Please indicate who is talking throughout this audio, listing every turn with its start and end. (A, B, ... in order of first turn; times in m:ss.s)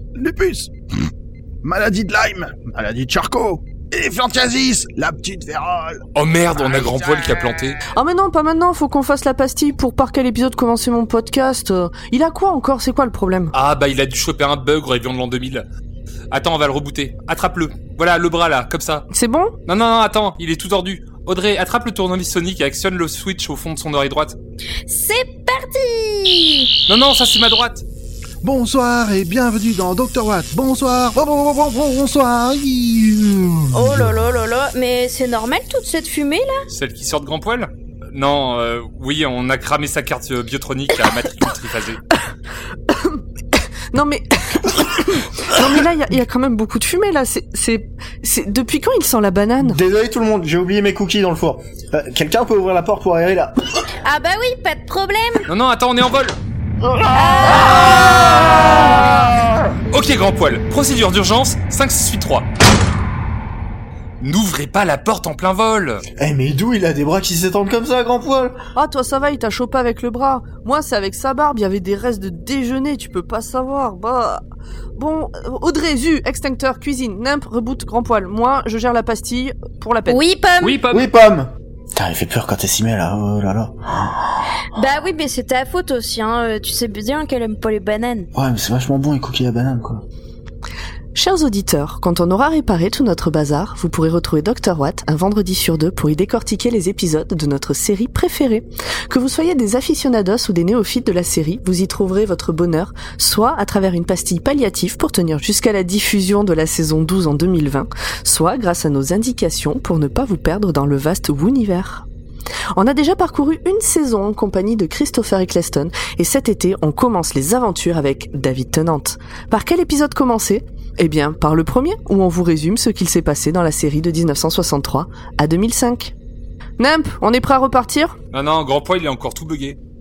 0:00.2-0:01.1 A
0:01.6-0:06.0 A
0:06.2-0:07.8 B
0:07.9-0:13.5 C
0:13.5-0:15.7 B
0:16.3-0:19.1 B
0:19.1-0:19.6 C
0:19.7-0:24.4 B
0:24.9-0:26.8 D
0:26.9-0:27.8 B
0:28.4-0:34.1 A
0:33.7-0:36.5 D
0:36.7-0:42.0 B
0:42.9-0:43.2 C
0:43.9-0:49.8 C
0:49.6-0:53.7 E
0:54.0-0:55.5 D
0:55.5-0:56.4 B
0:57.1-0:58.9 D
0:59.9-1:02.5 B
1:04.2-1:06.0 B
1:06.2-1:08.6 E
1:08.8-1:14.4 C
1:15.0-1:20.2 C
1:20.1-1:20.8 D
1:20.6-1:21.1 B
1:20.9-1:24.2 E
1:24.7-1:28.3 D
1:28.4-1:30.0 E
1:31.2-1:52.1 C
1:52.8-2:06.1 C
2:06.8-2:08.2 C
2:08.3-2:09.8 B